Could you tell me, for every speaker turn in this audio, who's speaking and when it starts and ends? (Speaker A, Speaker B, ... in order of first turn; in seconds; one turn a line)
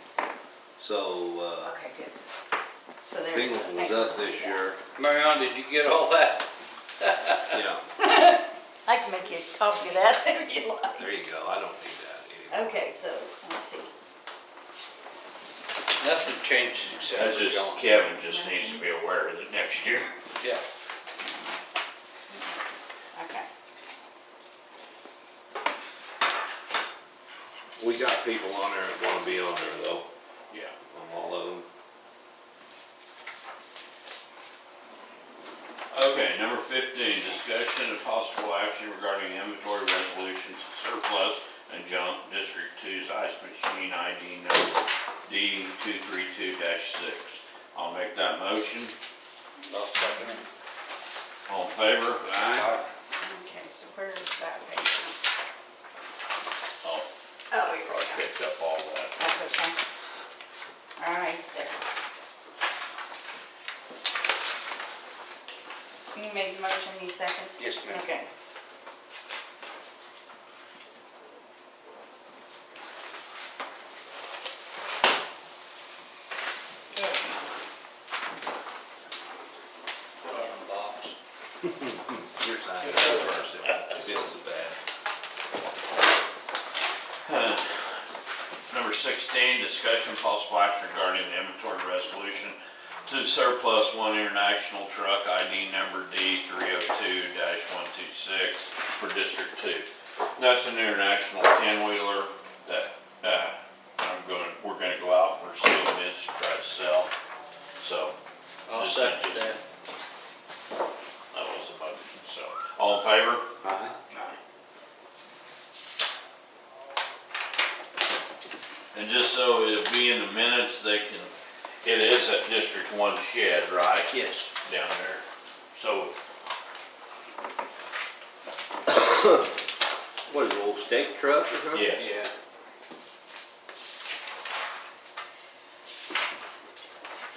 Speaker A: 0.8-1.8
Speaker B: 1.6-2.1
Speaker B: 3.0-4.6
Speaker A: 3.3-4.8
Speaker C: 4.9-6.5
Speaker C: 7.0-7.6
Speaker A: 7.5-7.8
Speaker B: 8.0-11.1
Speaker A: 10.9-12.7
Speaker B: 12.5-13.9
Speaker C: 16.0-17.9
Speaker B: 16.9-17.2
Speaker D: 17.1-20.1
Speaker B: 18.1-18.8
Speaker B: 21.2-21.6
Speaker B: 22.3-22.6
Speaker B: 23.1-23.5
Speaker A: 27.8-30.1
Speaker D: 30.5-30.7
Speaker A: 30.9-31.6
Speaker D: 35.9-48.9
Speaker C: 49.7-50.4
Speaker B: 50.1-50.4
Speaker D: 51.5-52.7
Speaker C: 52.3-52.9
Speaker B: 53.2-55.2
Speaker D: 56.8-59.2
Speaker B: 57.5-58.2
Speaker B: 59.2-59.8
Speaker B: 61.0-61.8
Speaker B: 66.1-68.3
Speaker C: 67.6-68.0
Speaker B: 76.9-77.4
Speaker C: 80.2-81.1
Speaker A: 81.6-84.8
Speaker C: 82.8-83.7
Speaker D: 87.2-88.0
Speaker D: 88.7-107.1
Speaker D: 107.8-108.2
Speaker C: 108.7-109.6
Speaker D: 108.7-109.5
Speaker D: 111.3-113.5
Speaker A: 113.6-113.9
Speaker D: 114.1-114.4
Speaker D: 118.9-126.2
Speaker C: 124.1-124.5
Speaker A: 128.9-129.5
Speaker A: 130.3-132.0
Speaker D: 131.7-132.2
Speaker C: 131.9-132.3